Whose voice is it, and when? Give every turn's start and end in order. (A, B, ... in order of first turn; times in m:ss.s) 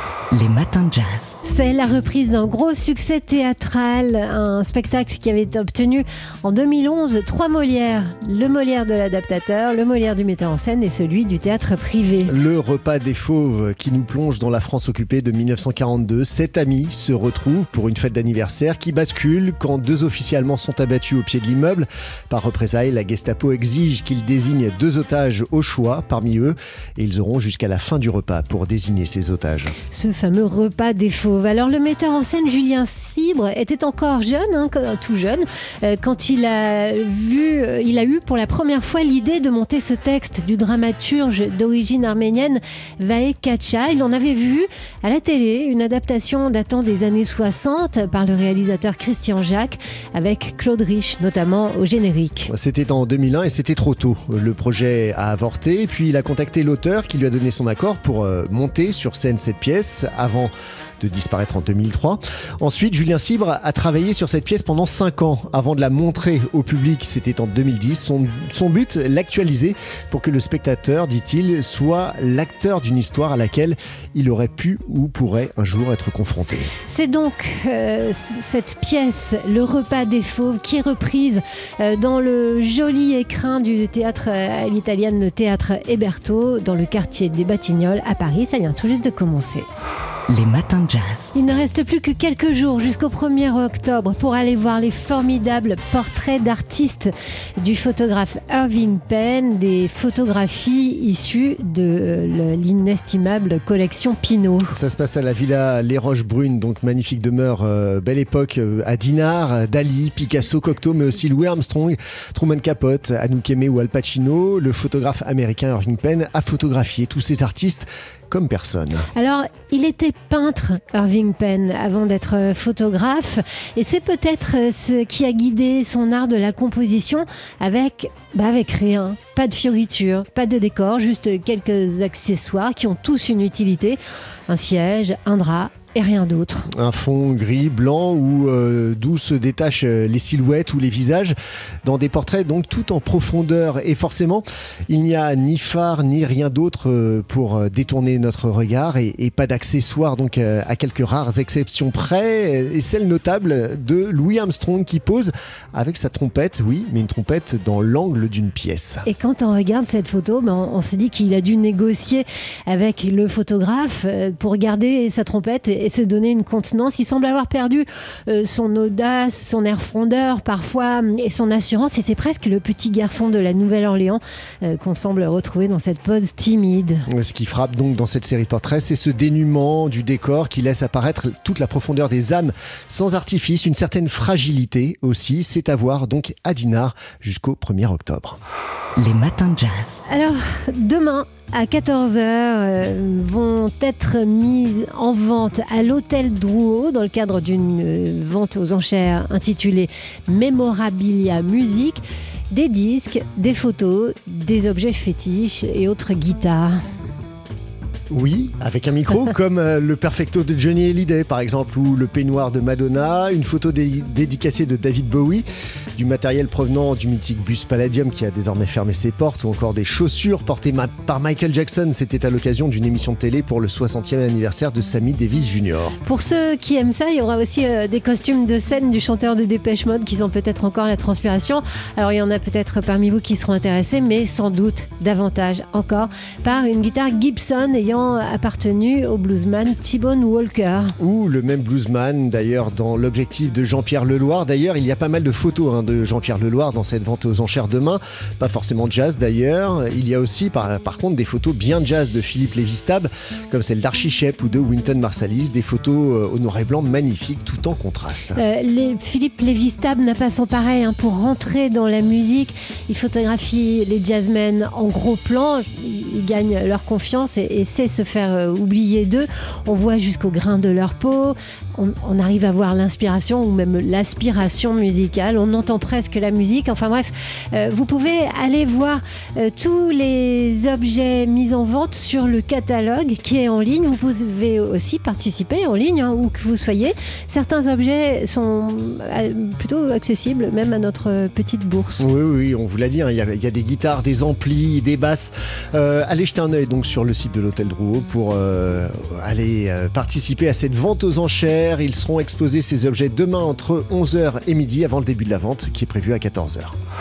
0:00.3-0:01.4 A
0:01.4-0:12.3 B
0:12.3-0:29.7 C
0:29.9-0:52.5 B
0:52.5-1:16.7 C
1:16.9-1:29.6 B
1:30.3-1:31.3 A
1:31.3-1:44.7 B
1:44.7-1:59.1 C
1:59.1-2:16.7 B
2:16.7-2:39.0 C
2:39.0-2:57.1 B
2:57.1-3:08.4 C
3:09.0-3:10.0 A
3:10.1-3:26.8 B
3:28.1-3:35.4 C
3:36.0-3:45.9 C
3:46.0-4:00.9 B
4:01.0-4:18.4 C
4:18.3-4:52.0 B
4:52.0-5:06.7 C